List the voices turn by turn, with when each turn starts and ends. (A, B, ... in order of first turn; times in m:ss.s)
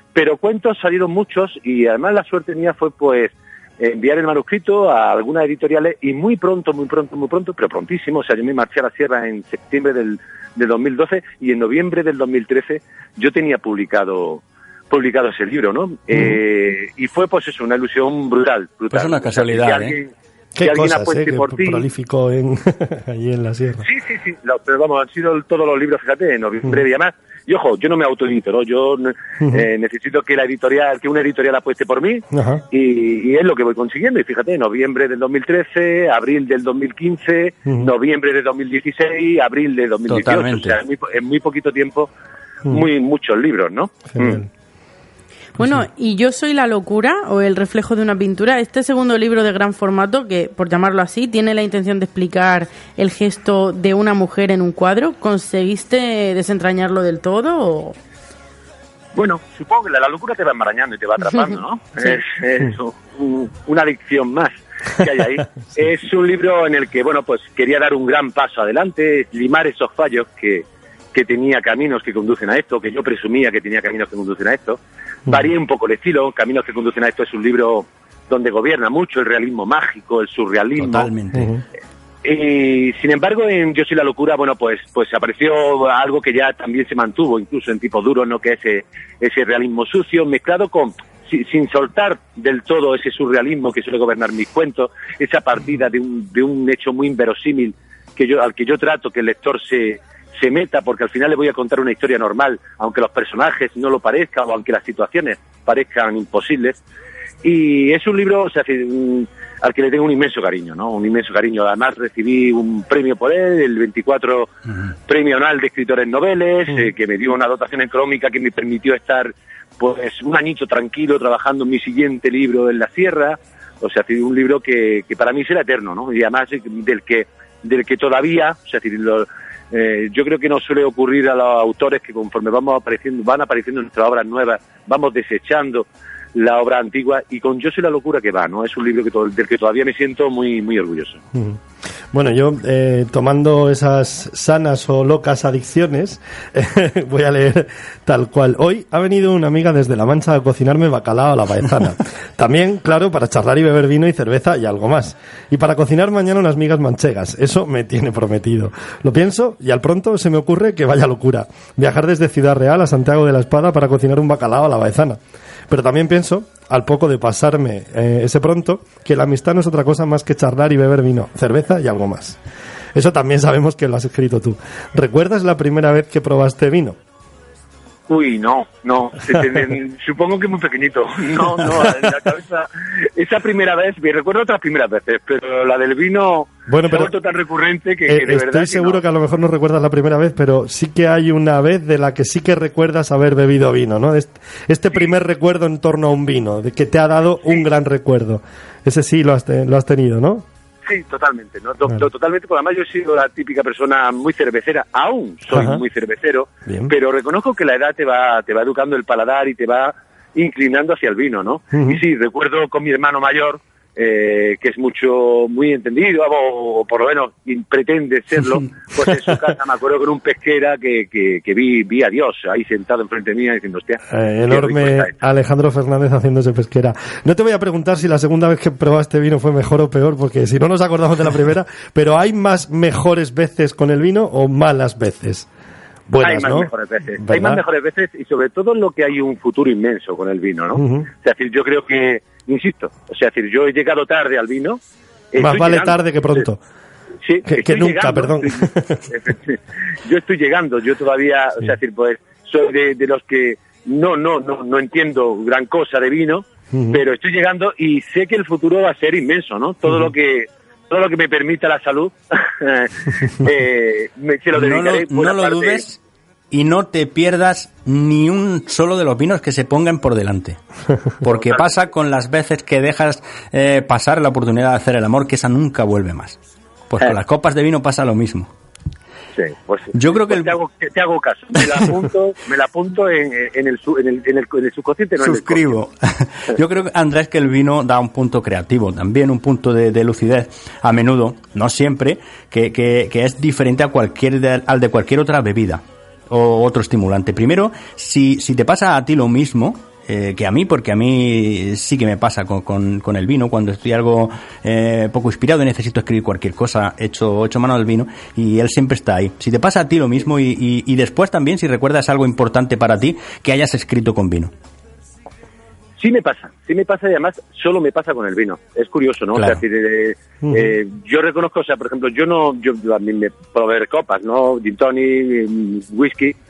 0:00.1-0:21.8 A
0:16.1-0:16.4 B
0:18.9-0:20.0 C
0:20.6-0:23.9 B
0:23.8-0:42.1 A
0:32.3-0:32.6 B
0:37.7-0:37.9 B
0:40.1-0:40.8 C
0:42.7-0:44.4 A
0:44.1-0:44.5 B
0:45.6-0:45.9 B
0:45.6-0:58.0 D
0:59.2-1:21.1 A
1:20.8-1:21.5 C
1:21.3-1:21.6 B
1:22.2-1:46.8 A
1:47.4-1:54.5 A
1:55.1-2:21.2 A
2:21.3-2:21.6 B
2:22.1-2:52.4 B
2:52.9-2:57.0 B
2:58.1-3:09.0 A
3:06.7-3:07.1 B
3:08.1-3:20.4 B
3:20.8-3:45.1 A
3:25.5-3:25.8 B
3:26.7-3:26.9 B
3:31.7-3:32.0 B
3:44.1-3:55.5 B
3:56.1-3:57.6 B
3:56.2-4:04.8 A
4:00.8-4:01.1 B
4:05.3-4:06.0 A
4:05.4-4:06.6 B
4:07.2-4:25.8 A
4:07.4-4:09.0 B
4:16.7-4:17.0 B
4:24.6-4:26.0 C
4:26.5-4:30.6 C
4:31.2-4:36.4 C
4:31.3-4:31.8 A
4:36.9-4:38.5 C
4:39.4-4:45.7 A
4:39.9-4:40.5 C
4:45.2-5:14.5 C
5:16.0-5:26.4 A
5:20.4-5:20.8 B